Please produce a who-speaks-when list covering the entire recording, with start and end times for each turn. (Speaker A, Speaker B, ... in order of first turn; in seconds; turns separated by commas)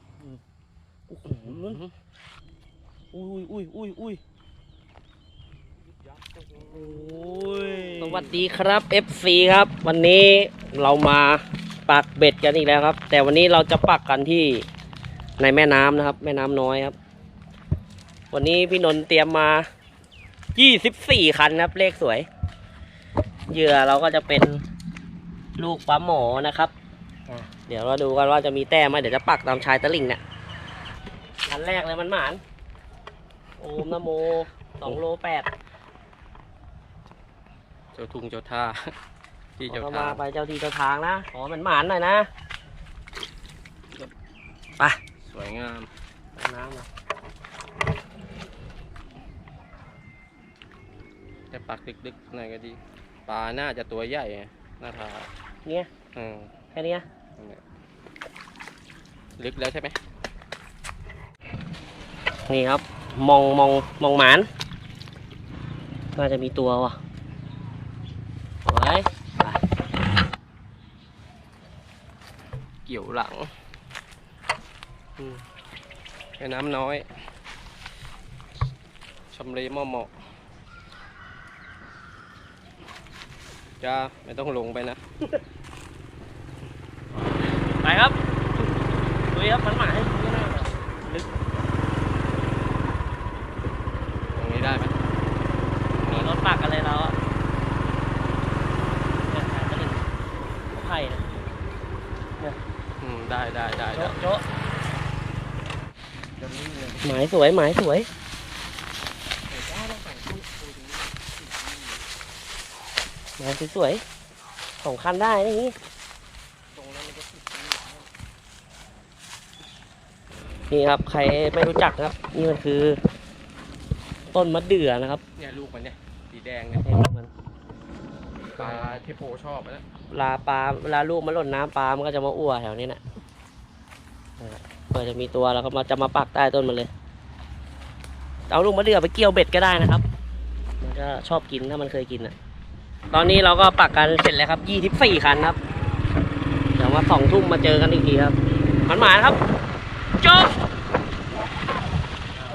Speaker A: 1.1-1.8, Speaker B: 1.4-1.9, Speaker A: 3.1-4.2, Speaker B: 6.0-7.1, Speaker A: 6.7-14.7, Speaker B: 8.0-8.4, Speaker A: 15.4-16.9, Speaker A: 18.3-19.7, Speaker A: 20.5-22.3, Speaker A: 23.5-24.6, Speaker A: 25.6-26.7, Speaker A: 27.3-30.2, Speaker A: 31.5-32.4, Speaker A: 33.6-35.5, Speaker B: 37.9-38.9, Speaker B: 39.6-40.2, Speaker A: 39.7-42.3, Speaker B: 45.2-45.9, Speaker A: 46.4-46.9, Speaker B: 51.5-55.3, Speaker A: 55.6-55.9, Speaker B: 56.1-56.5, Speaker A: 56.7-57.0, Speaker B: 59.4-60.0, Speaker A: 62.5-64.5, Speaker A: 66.1-67.0, Speaker A: 68.6-69.6, Speaker B: 72.8-73.5, Speaker B: 75.2-75.4, Speaker B: 76.4-77.1, Speaker B: 79.3-80.2, Speaker B: 83.8-85.0, Speaker A: 87.2-91.3, Speaker B: 94.3-95.0, Speaker B: 95.9-96.4, Speaker A: 96.0-97.2, Speaker A: 99.3-100.0, Speaker A: 100.7-101.3, Speaker B: 103.0-104.2, Speaker A: 103.9-104.4, Speaker B: 106.4-107.0, Speaker A: 107.0-108.1, Speaker B: 109.5-112.1, Speaker A: 113.4-114.0, Speaker A: 114.8-115.8, Speaker B: 116.7-118.1, Speaker A: 120.7-123.0, Speaker A: 124.3-125.2, Speaker B: 125.4-126.9, Speaker A: 126.8-127.3, Speaker B: 128.5-129.8, Speaker A: 128.6-129.0, Speaker A: 130.1-133.0, Speaker A: 134.4-136.9, Speaker A: 138.5-140.0, Speaker A: 140.8-142.3, Speaker A: 143.1-145.6, Speaker A: 146.8-149.4, Speaker A: 150.2-150.6